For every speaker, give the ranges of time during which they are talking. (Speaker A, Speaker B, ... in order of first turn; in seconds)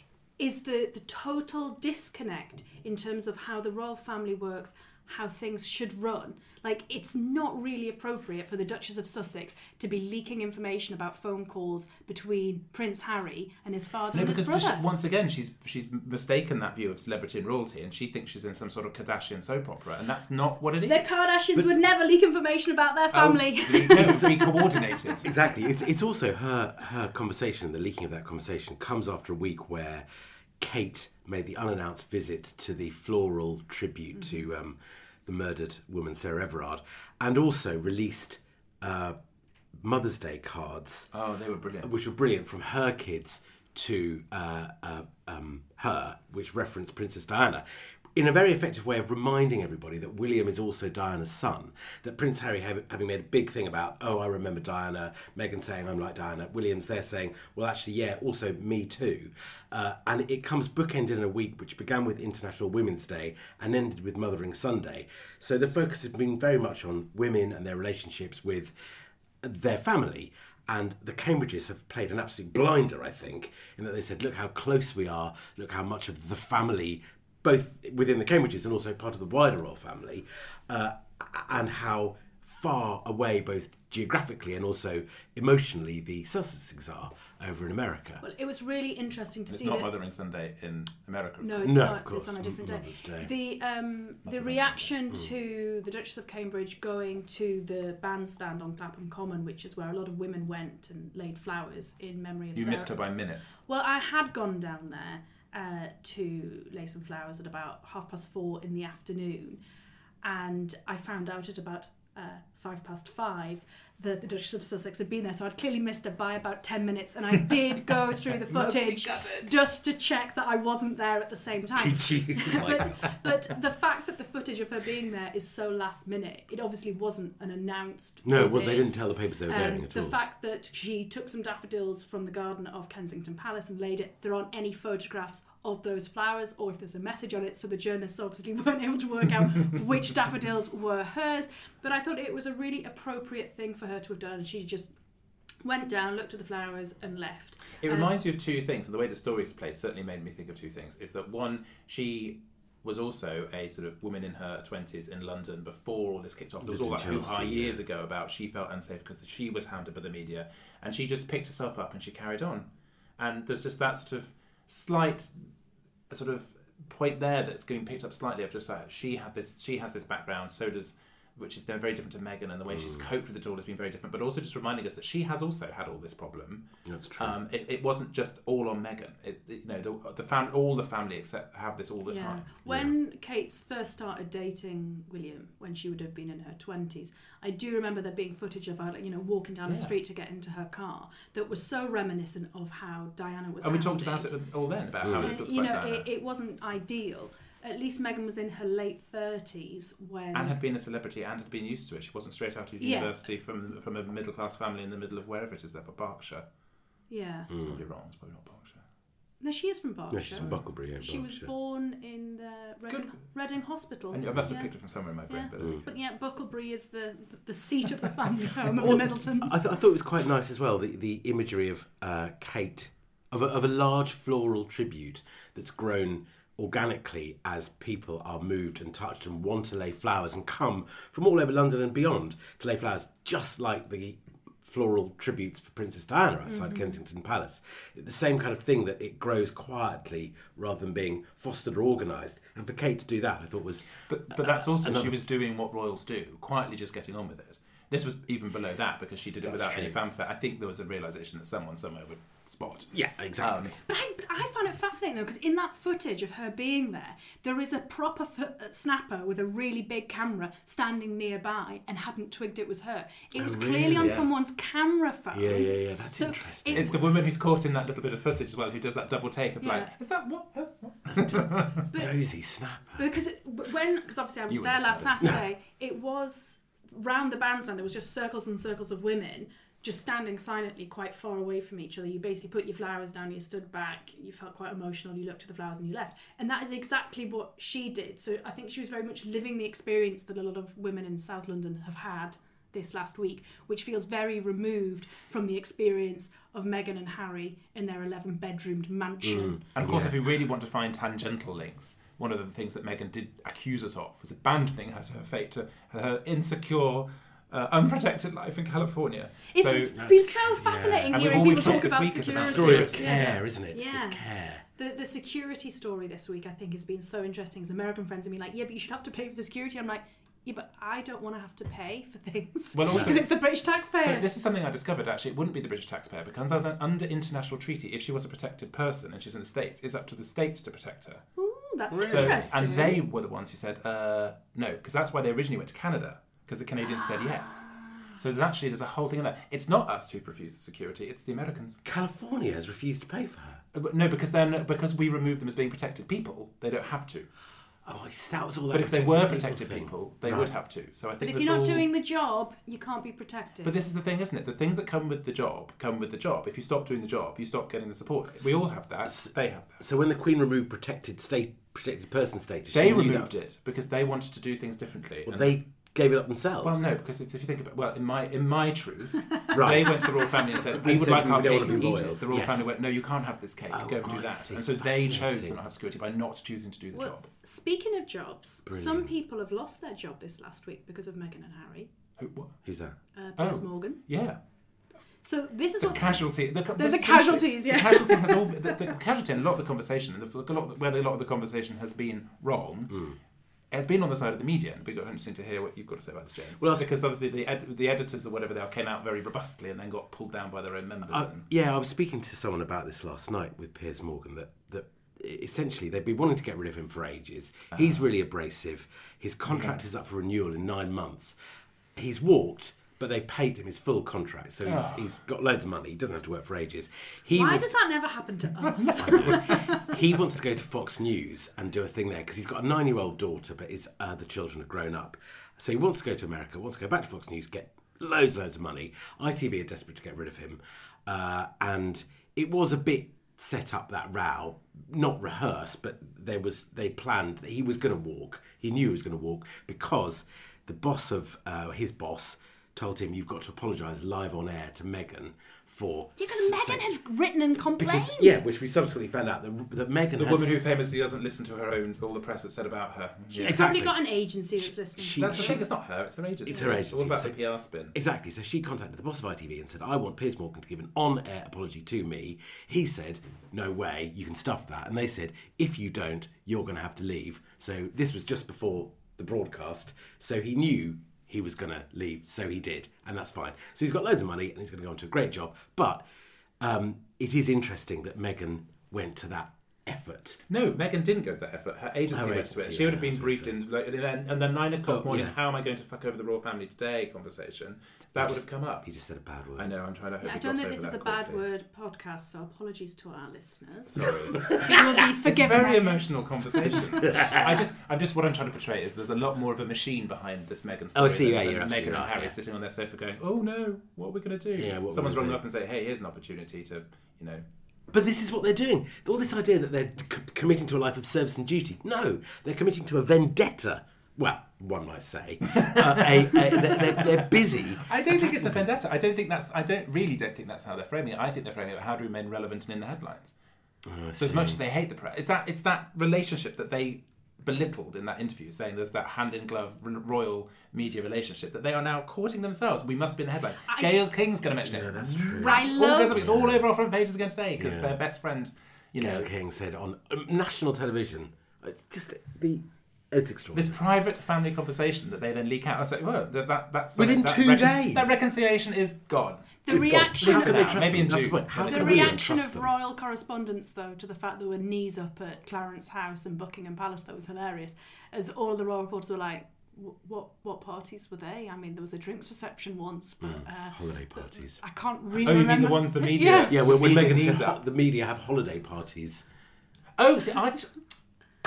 Speaker A: 0.4-14.8, 20.9-25.3, 88.2-89.9, 91.4-102.9, 103.7-109.6, 110.2-144.9, 145.6-148.1, 182.1-194.3, 195.2-200.6, 202.8-203.1, 207.1-207.5, 209.4-214.7, 215.3-219.6, 236.5-237.0, 253.8-267.0, 269.6-269.9, 271.9-272.1, 273.0-299.6, 309.5-314.2, 314.8-324.3, 331.4-333.0, 336.9-338.1, 351.2-353.8, 369.2-370.4, 376.9-381.9, 383.2-384.0, 385.2-388.9, 417.3-420.0, 446.2-448.4, 453.3-455.6, 490.2-497.2, 533.7-534.0, 535.4-536.2, 549.6-550.9, 551.6-566.6
Speaker B: 14.1-21.1, 23.1-25.3, 41.1-41.9, 89.5-92.0, 94.3-94.9, 102.5-103.5, 118.3-119.5, 147.8-162.7, 163.2-165.3, 166.1-176.7, 177.2-182.6, 189.7-189.9, 193.6-196.1, 200.3-206.4, 207.5-208.8, 214.1-215.8, 244.1-253.8, 266.7-271.8, 274.5-275.1, 299.8-310.0, 311.1-313.4, 322.7-323.3, 324.0-331.2, 332.0-341.8, 343.7-347.3, 348.7-351.9, 353.6-359.8, 362.7-365.6, 366.6-377.3, 382.2-382.6, 383.4-384.4, 385.8-393.1, 393.7-401.4, 409.5-409.8, 414.7-415.1, 418.6-419.7, 450.2-453.7, 455.2-457.9, 480.5-488.9, 489.6-491.4, 493.9-507.4, 515.5-523.4, 524.2-539.3, 543.5-552.2, 565.2-567.6, 570.0-570.7
Speaker C: 23.9-24.3, 25.2-30.1, 30.6-39.2, 39.8-41.1, 41.8-47.6, 48.1-68.7, 69.4-88.2, 91.6-93.3, 121.8-123.1, 128.2-130.2, 156.6-157.8, 172.7-173.1, 176.8-177.4, 182.7-182.9, 195.0-195.4, 207.5-207.8, 210.1-211.5, 218.7-245.2, 249.4-250.0, 252.9-253.7, 263.4-264.3, 265.3-267.0, 271.1-273.0, 299.2-300.2, 309.9-314.6, 322.9-323.1, 331.9-332.6, 341.8-343.6, 347.9-350.5, 359.1-363.3, 365.3-366.8, 369.5-372.7, 373.7-375.6, 378.7-379.1, 382.6-382.9, 385.9-386.2, 392.9-393.2, 396.6-396.9, 401.1-411.4, 412.0-417.7, 419.0-446.8, 447.8-450.5, 453.4-454.0, 454.6-455.7, 456.5-457.4, 457.9-476.0, 476.6-480.4, 482.1-483.5, 484.8-485.4, 488.1-489.7, 494.0-494.9, 497.0-497.6, 500.9-502.4, 504.6-505.4, 507.9-518.6, 523.9-524.6, 534.6-536.6, 537.6-538.0, 539.0-543.8, 547.0-548.2, 549.7-552.7, 563.2-564.6, 566.5-569.2